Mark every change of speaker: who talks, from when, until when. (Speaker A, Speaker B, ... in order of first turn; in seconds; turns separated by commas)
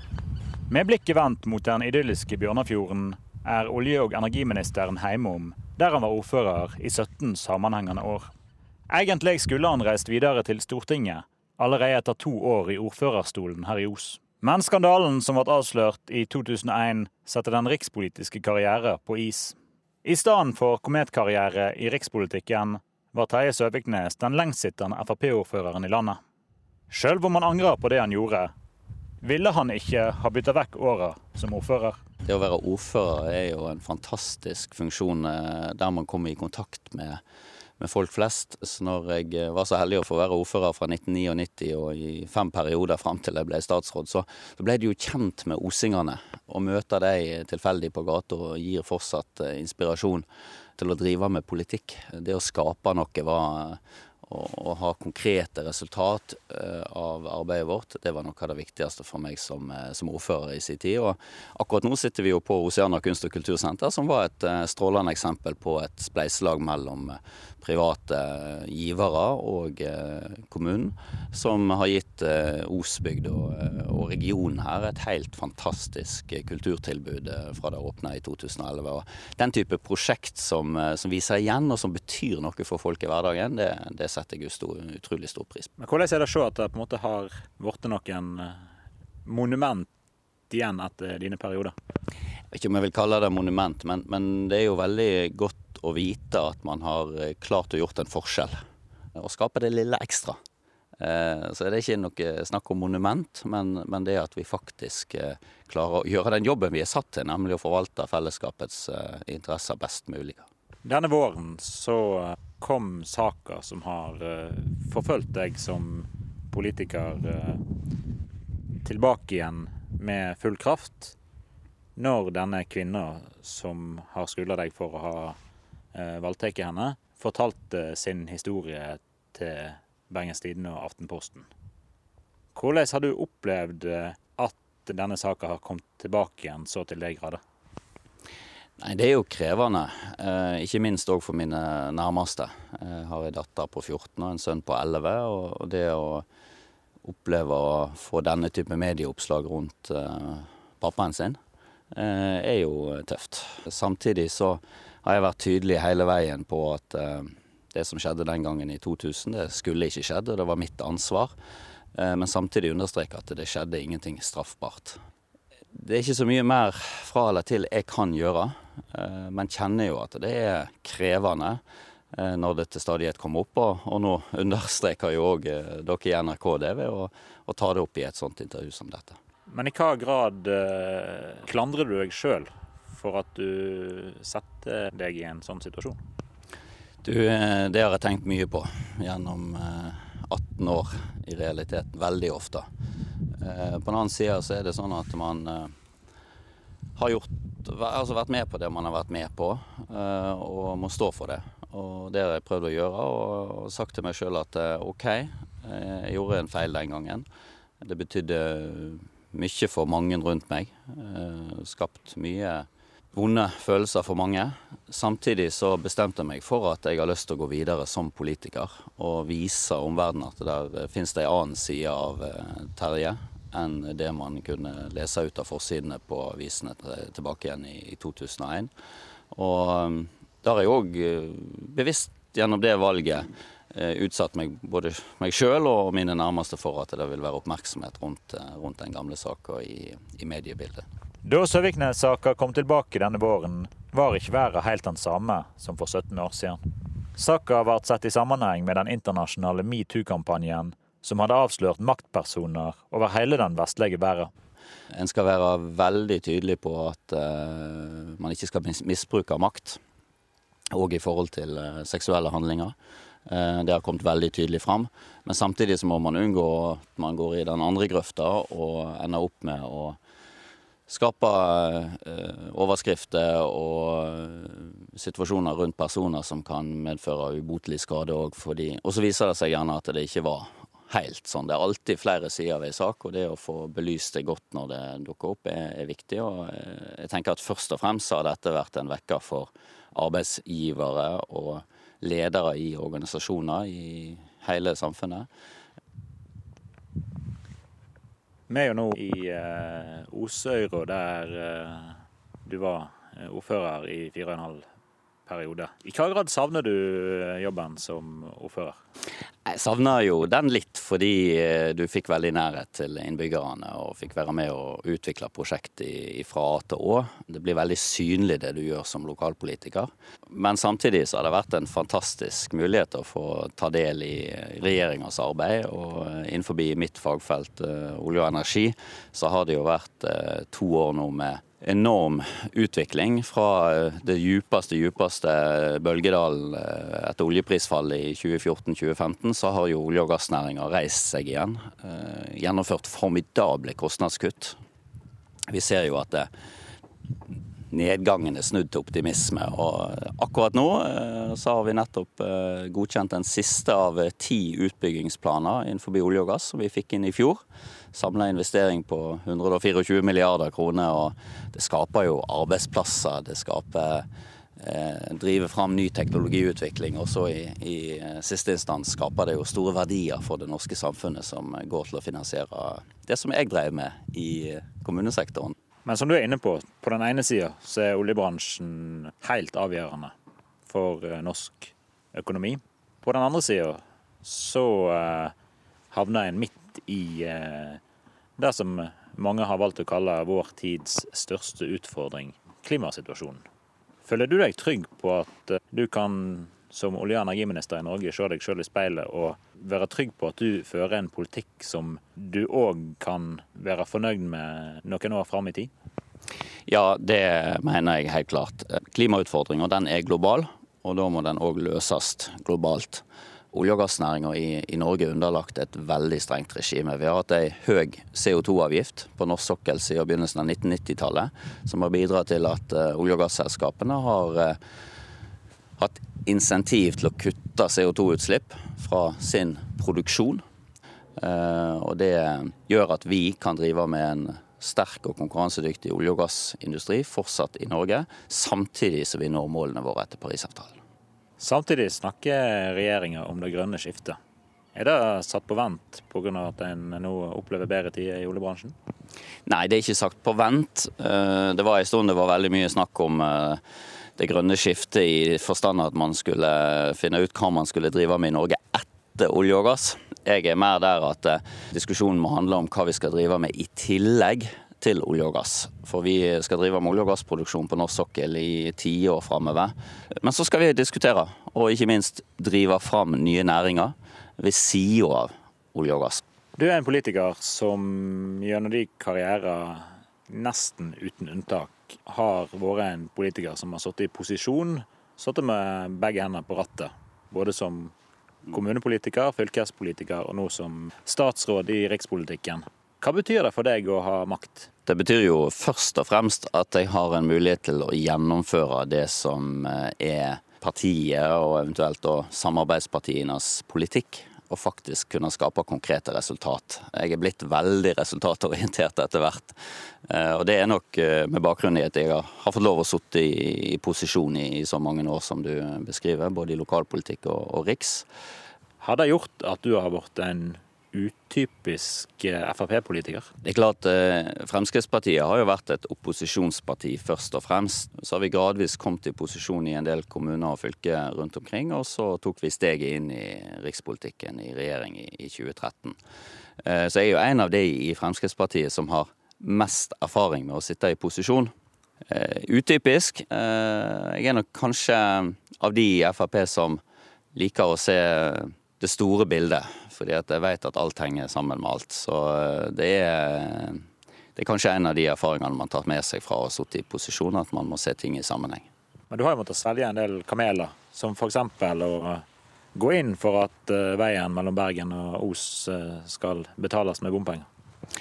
Speaker A: 0.7-8.3, Speaker A: 8.9-26.2, Speaker A: 26.9-28.5, Speaker A: 29.2-32.0, Speaker B: 32.2-37.2, Speaker B: 37.8-50.2, Speaker B: 50.8-85.7, Speaker A: 85.8-88.6, Speaker A: 89.2-89.9, Speaker A: 90.5-91.8, Speaker B: 92.5-98.6, Speaker B: 99.2-100.4, Speaker B: 101.0-110.5, Speaker A: 110.8-117.6, Speaker A: 118.8-121.2, Speaker A: 122.0-125.4, Speaker A: 125.9-131.5, Speaker A: 132.6-137.4, Speaker B: 138.8-146.2, Speaker B: 147.0-151.4, Speaker B: 151.9-161.3, Speaker B: 161.9-165.0, Speaker B: 165.7-171.6, Speaker B: 172.2-179.2, Speaker A: 179.5-186.0, Speaker B: 187.0-192.7, Speaker B: 193.4-195.7, Speaker B: 197.0-207.3, Speaker B: 207.8-228.7, Speaker B: 229.3-240.9, Speaker A: 241.2-246.6, Speaker A: 247.2-254.3, Speaker B: 254.9-259.8, Speaker B: 260.7-262.7, Speaker B: 263.3-270.0, Speaker B: 270.9-295.3, Speaker A: 298.5-304.6, Speaker A: 305.3-308.8, Speaker B: 309.5-344.6, Speaker B: 345.5-346.3, Speaker B: 347.7-357.4, Speaker B: 357.9-364.1, Speaker B: 364.6-375.6, Speaker A: 375.9-380.1, Speaker A: 380.6-385.3, Speaker A: 385.9-387.8, Speaker A: 388.4-393.4, Speaker A: 394.1-405.7, Speaker B: 406.7-424.6, Speaker B: 425.8-430.4, Speaker B: 431.2-440.8, Speaker A: 441.4-444.2, Speaker A: 444.7-448.8, Speaker B: 449.5-453.6, Speaker B: 454.2-476.2, Speaker A: 476.6-487.9, Speaker A: 488.5-494.7, Speaker B: 494.9-509.6, Speaker B: 510.1-518.1, Speaker A: 518.8-523.3, Speaker B: 523.4-536.0, Speaker B: 536.6-541.5, Speaker B: 542.1-546.8, Speaker B: 547.4-553.8, Speaker B: 554.4-558.7, Speaker A: 559.1-562.2, Speaker A: 562.8-567.5